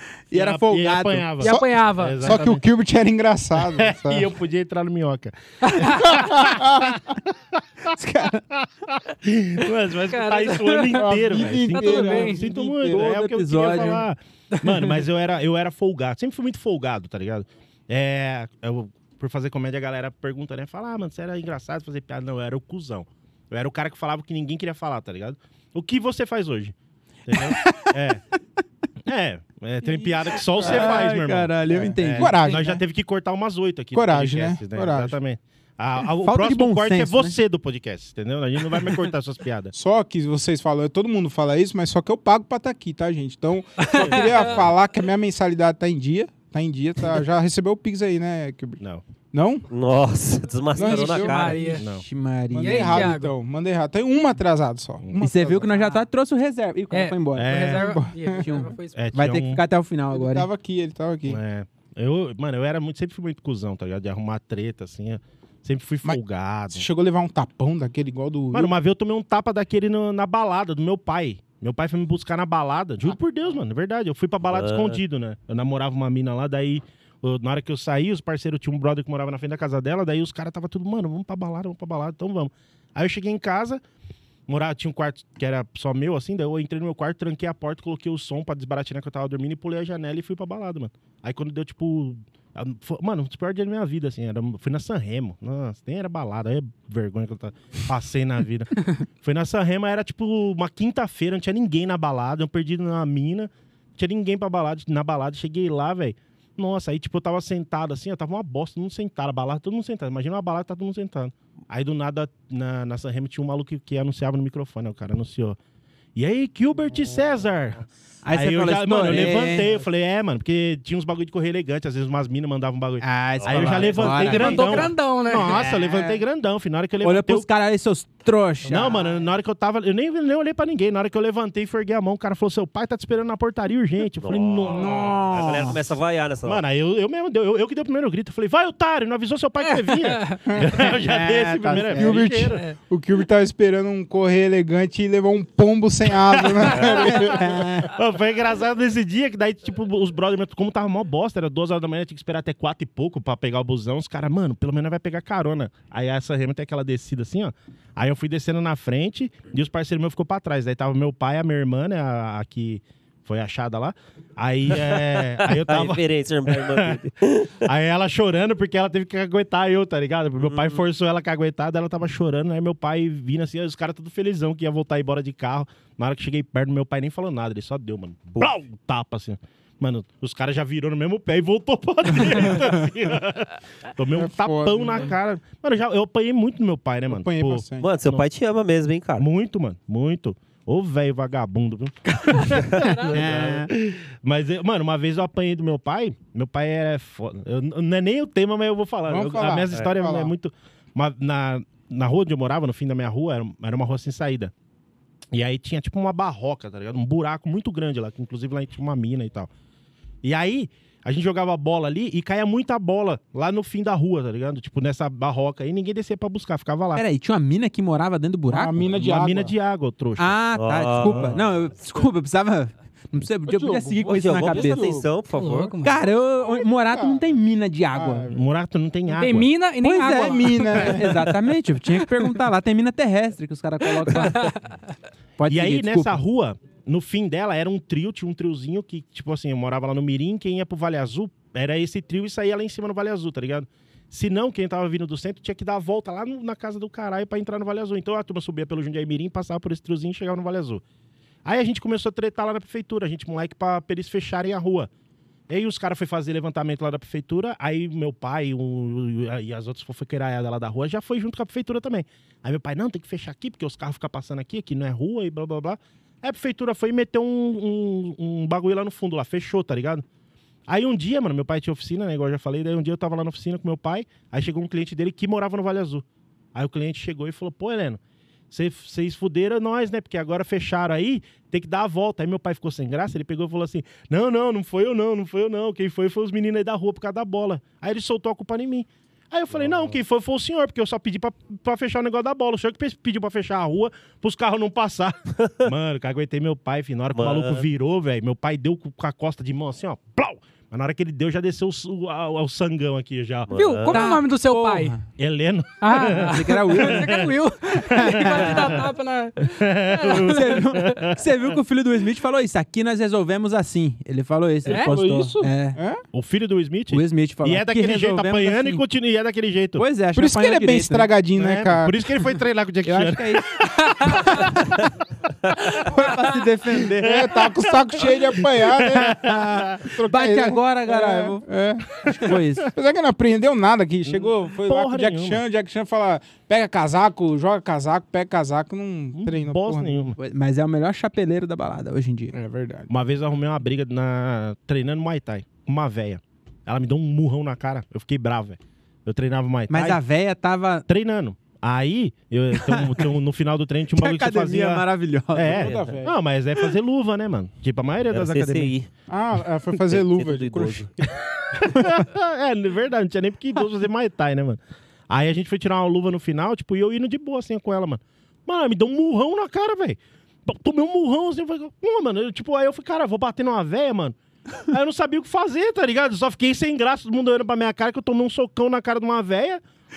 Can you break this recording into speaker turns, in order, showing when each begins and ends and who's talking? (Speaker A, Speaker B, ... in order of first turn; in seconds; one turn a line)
Speaker A: 0.3-1.4
Speaker B: 0.3-2.6
Speaker C: 1.4-2.4
Speaker D: 1.4-4.3
Speaker B: 3.6-7.9
Speaker C: 5.6-6.2
Speaker D: 5.9-7.0
Speaker D: 8.0-8.4
Speaker B: 8.5-26.7
Speaker C: 10.1-12.4
Speaker D: 10.9-13.0
Speaker A: 12.5-14.0
Speaker B: 27.2-28.2
Speaker A: 27.3-28.0
Speaker B: 29.1-39.7
Speaker A: 30.5-32.5
Speaker D: 30.6-30.9
Speaker D: 31.7-32.8
Speaker D: 33.9-35.2
Speaker A: 36.0-37.4
Speaker D: 39.7-48.8
Speaker C: 43.8-44.6
Speaker B: 43.9-44.7
Speaker D: 49.3-49.7
Speaker E: 49.7-51.8
Speaker D: 50.7-51.8
Speaker C: 50.8-51.8
Speaker B: 51.7-52.0
Speaker A: 51.8-53.1
Speaker D: 52.5-55.7
Speaker C: 52.6-53.3
Speaker A: 55.2-57.7
Speaker C: 56.9-59.0
Speaker B: 57.3-58.0
Speaker D: 57.8-58.6
Speaker A: 58.4-60.5
Speaker B: 58.9-59.6
Speaker D: 60.1-61.4
Speaker B: 61.2-66.8
Speaker D: 66.7-68.7
Speaker B: 68.5-83.8
Speaker E: 74.5-75.0
Speaker B: 84.5-115.6
Speaker B: 116.2-127.5
Speaker A: 118.2-119.7
Speaker A: 123.0-126.2
Speaker E: 123.4-124.5
Speaker C: 124.1-125.7
Speaker A: 127.0-129.1
Speaker B: 128.7-135.8
Speaker E: 134.2-136.6
Speaker A: 134.7-135.8
Speaker B: 136.4-142.7
Speaker C: 139.8-140.4
Speaker A: 140.7-142.5
Speaker D: 141.9-147.8
Speaker B: 146.3-167.0
Speaker A: 146.8-147.9
Speaker E: 164.8-167.7
Speaker B: 167.6-188.2
Speaker E: 170.4-170.8
Speaker D: 184.1-185.1
Speaker D: 187.1-187.9
Speaker E: 187.8-189.2
Speaker B: 189.2-204.5
Speaker C: 192.8-193.1
Speaker A: 193.1-193.7
Speaker D: 199.1-200.3
Speaker B: 205.3-209.5
Speaker B: 210.2-217.0
Speaker A: 216.9-218.8
Speaker D: 218.5-219.5
Speaker B: 218.9-220.3
Speaker A: 220.2-224.9
Speaker E: 220.5-221.4
Speaker B: 221.0-221.4
Speaker D: 223.5-225.1
Speaker E: 224.1-225.8
Speaker C: 225.3-225.9
Speaker A: 225.8-228.3
Speaker D: 226.9-227.2
Speaker D: 227.9-228.4
Speaker B: 228.3-229.5
Speaker C: 229.1-231.1
Speaker A: 229.8-234.5
Speaker D: 230.2-231.2
Speaker C: 234.0-234.6
Speaker A: 235.4-236.2
Speaker B: 235.5-250.8
Speaker B: 251.4-254.9
Speaker B: 255.5-270.0
Speaker B: 270.7-278.0
Speaker B: 278.5-303.5
Speaker E: 289.5-289.9
Speaker E: 297.1-297.6
Speaker E: 303.5-304.0
Speaker C: 303.5-305.0
Speaker A: 303.9-305.0
Speaker B: 305.2-308.8
Speaker C: 305.8-311.0
Speaker A: 306.1-307.2
Speaker A: 307.9-308.8
Speaker B: 309.4-311.3
Speaker A: 310.1-315.8
Speaker C: 314.6-315.0
Speaker D: 314.6-316.0
Speaker B: 316.1-319.8
Speaker A: 316.9-318.8
Speaker A: 319.8-321.1
Speaker D: 320.1-322.2
Speaker B: 321.4-324.6
Speaker A: 322.8-324.6
Speaker C: 324.0-324.3
Speaker A: 325.6-327.4
Speaker D: 327.0-329.4
Speaker B: 327.1-329.9
Speaker A: 329.1-332.7
Speaker D: 329.9-332.0
Speaker B: 332.0-332.4
Speaker D: 332.7-340.0
Speaker B: 334.1-335.4
Speaker B: 339.1-340.2
Speaker A: 340.2-342.4
Speaker D: 342.3-342.9
Speaker B: 342.9-350.0
Speaker A: 349.7-350.8
Speaker B: 350.9-358.7
Speaker A: 352.5-353.1
Speaker A: 353.9-355.7
Speaker D: 355.5-356.1
Speaker E: 355.6-355.9
Speaker E: 358.1-358.9
Speaker D: 359.1-360.9
Speaker E: 359.9-360.9
Speaker B: 361.1-379.6